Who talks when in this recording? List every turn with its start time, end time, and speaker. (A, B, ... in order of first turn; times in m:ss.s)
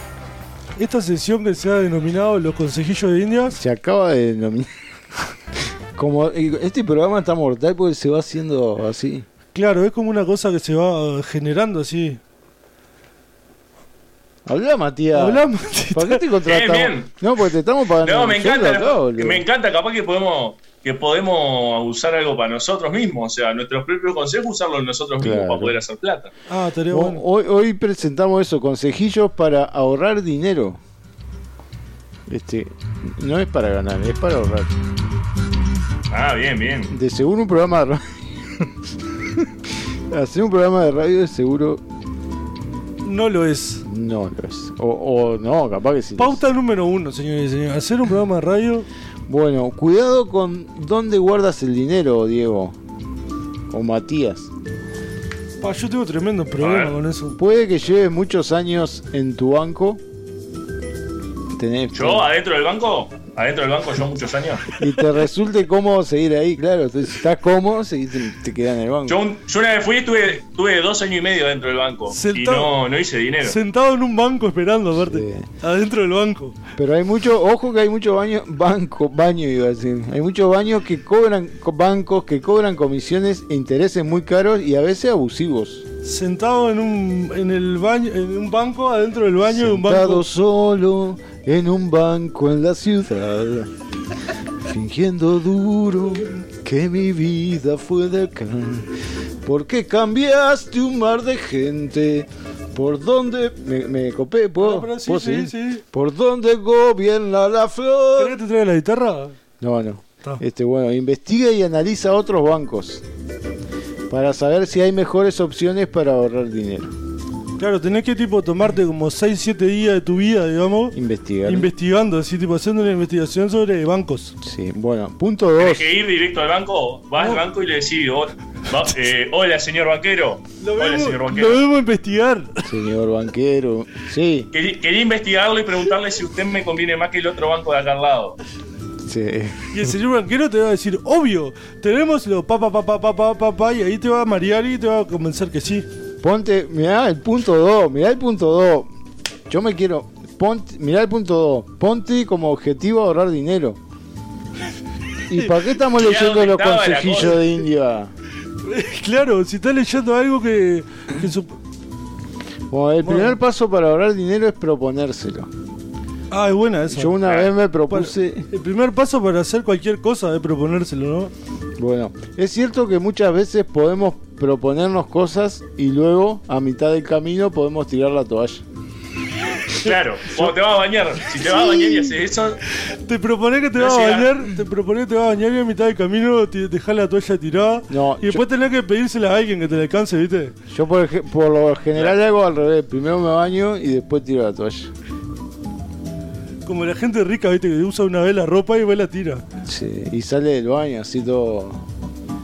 0:00.8-0:03.6 A
0:03.5-0:04.7 B
0:06.0-0:09.3 B
0:09.5-0:12.2 A
0:14.5-0:19.4 B
0:15.2-0:16.3 A
0:16.4-0:17.1 C
0:18.0-0:26.3 C
0:25.2-0:25.8 B
0:26.5-0:27.2 A
0:26.9-0:30.8 B
0:32.3-0:34.7 B
0:36.1-0:36.9 C
0:36.9-0:38.7 B
0:39.3-0:39.5 B
0:40.1-0:41.8 B
0:43.0-0:43.8 A
0:43.8-0:46.4 B
0:46.2-0:48.9 A
0:49.3-0:52.8 B
0:53.7-0:54.5 B
0:55.6-0:57.4 A
0:56.6-0:56.9 C
0:57.4-1:00.0 B
1:01.5-1:02.3 B
1:01.9-1:04.7 C
1:04.8-1:09.2 B
1:09.1-1:13.6 C
1:12.1-1:12.8 A
1:13.4-1:16.6 A
1:15.0-1:15.5 B
1:16.8-1:25.8 B
1:26.0-1:30.2 A
1:29.4-1:33.7 B
1:34.6-1:48.4 B
1:44.6-1:45.8 A
1:48.2-1:49.4 A
1:49.6-1:53.0 B
1:54.1-1:56.9 B
1:57.6-2:04.4 A
2:00.9-2:01.7 B
2:04.4-2:05.9 B
2:05.6-2:11.6 C
2:10.6-2:12.8 A
2:12.6-2:14.5 B
2:14.5-2:18.4 C
2:19.0-2:19.7 B
2:19.7-2:25.9 A
2:26.2-2:28.9 B
2:29.5-2:33.8 B
2:35.3-2:38.1 B
2:35.8-2:37.4 C
2:38.6-2:41.6 A
2:42.7-2:45.5 B
2:43.0-2:43.4 A
2:46.3-2:47.2 A
2:46.9-2:48.5 B
2:47.2-2:47.5 C
2:47.9-2:51.3 A
2:51.8-2:58.6 B
2:59.7-3:02.6 C
3:01.7-3:02.1 A
3:02.7-3:10.6 A
3:03.8-3:04.5 C
3:07.9-3:08.4 B
3:10.7-3:14.9 B
3:16.7-3:19.4 A
3:19.7-3:21.9 B